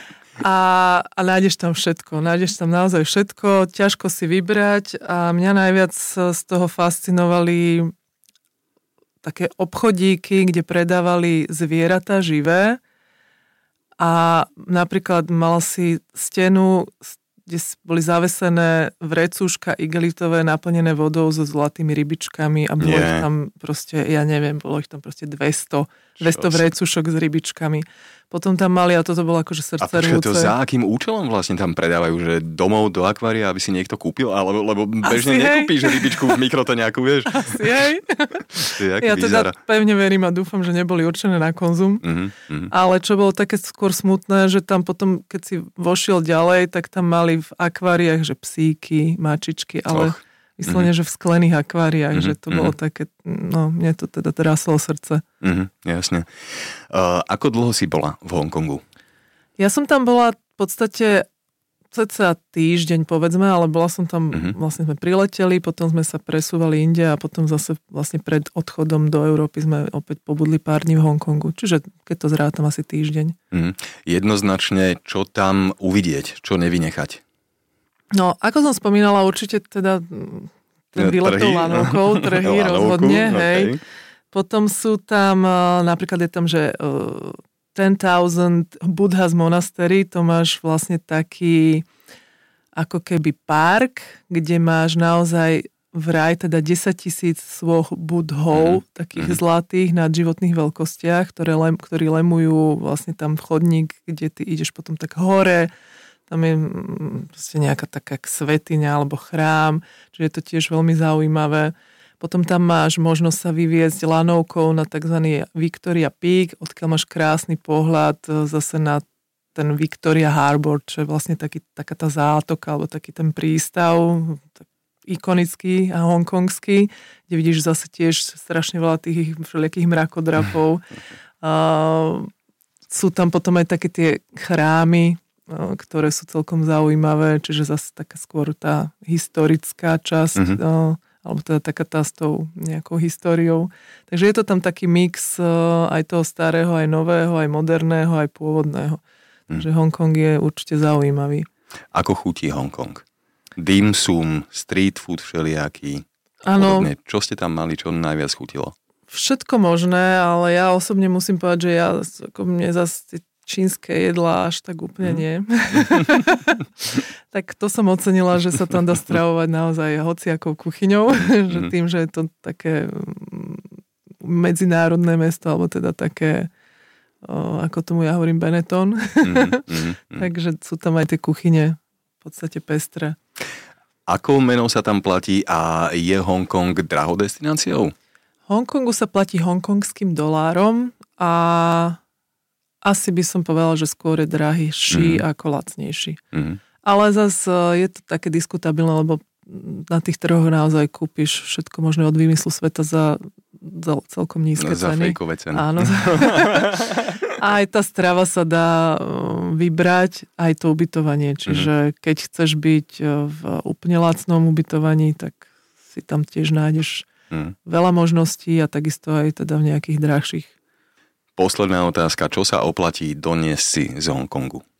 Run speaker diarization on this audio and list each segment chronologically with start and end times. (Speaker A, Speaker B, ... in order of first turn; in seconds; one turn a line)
Speaker A: 0.4-7.9
Speaker A: 9.2-12.8
Speaker A: 14.0-30.6
Speaker B: 22.8-23.2
Speaker B: 26.2-26.6
Speaker B: 29.8-37.4
Speaker A: 35.0-36.4
Speaker A: 37.3-42.0
Speaker B: 38.7-39.5
Speaker B: 42.0-42.7
Speaker A: 42.7-55.2
Speaker B: 52.1-52.7
Speaker B: 55.4-56.3
Speaker B: 56.9-58.8
Speaker A: 59.6-61.3
Speaker A: 61.9-73.4
Speaker B: 73.5-77.2
Speaker A: 78.1-83.8
Speaker B: 81.0-83.8
Speaker A: 84.3-91.9
Speaker A: 92.8-105.7
Speaker B: 98.5-99.4
Speaker A: 106.3-124.5
Speaker A: 125.1-130.9
Speaker A: 131.4-132.3
Speaker A: 132.9-151.5
Speaker B: 151.9-153.0
Speaker B: 153.6-156.0
Speaker A: 156.4-156.9
Speaker B: 156.6-158.7
Speaker A: 159.1-173.7
Speaker A: 174.2-176.5
Speaker A: 177.2-183.2
Speaker B: 179.2-180.2
Speaker B: 184.1-187.9
Speaker A: 188.5-192.0
Speaker A: 192.8-196.2
Speaker B: 194.9-195.2
Speaker B: 196.3-196.6
Speaker A: 196.8-217.1
Speaker B: 204.6-207.0
Speaker A: 217.7-220.5
Speaker B: 221.4-224.6